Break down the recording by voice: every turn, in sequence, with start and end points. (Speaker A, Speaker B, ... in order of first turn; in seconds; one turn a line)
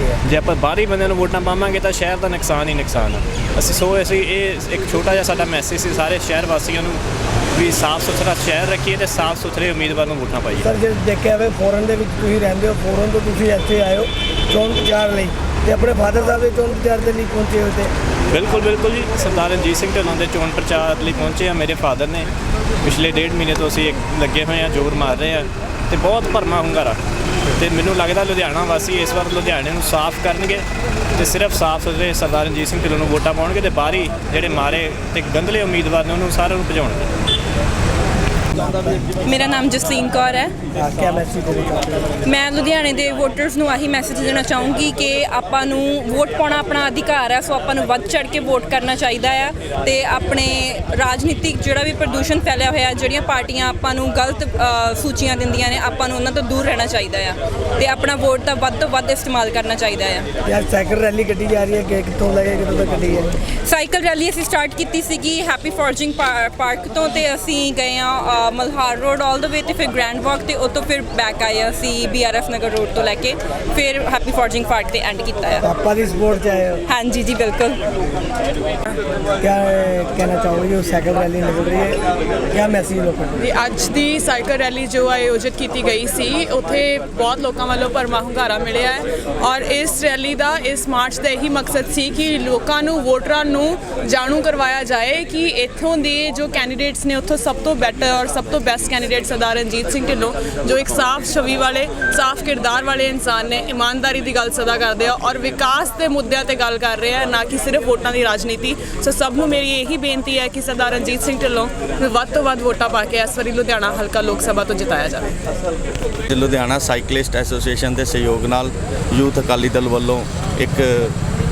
Speaker A: 0.2-7.0
Speaker A: 7.5-10.7
Speaker B: 10.6-17.9
Speaker A: 18.3-22.3
Speaker A: 22.8-27.0
Speaker A: 27.6-30.6
Speaker A: 31.2-37.1
Speaker C: 39.3-40.5
Speaker B: 40.7-42.2
Speaker C: 42.2-60.2
Speaker B: 60.4-63.4
Speaker C: 63.6-75.6
Speaker B: 75.6-76.8
Speaker C: 76.9-77.8
Speaker B: 79.4-83.4
Speaker D: 83.5-115.3
Speaker E: 116.2-121.2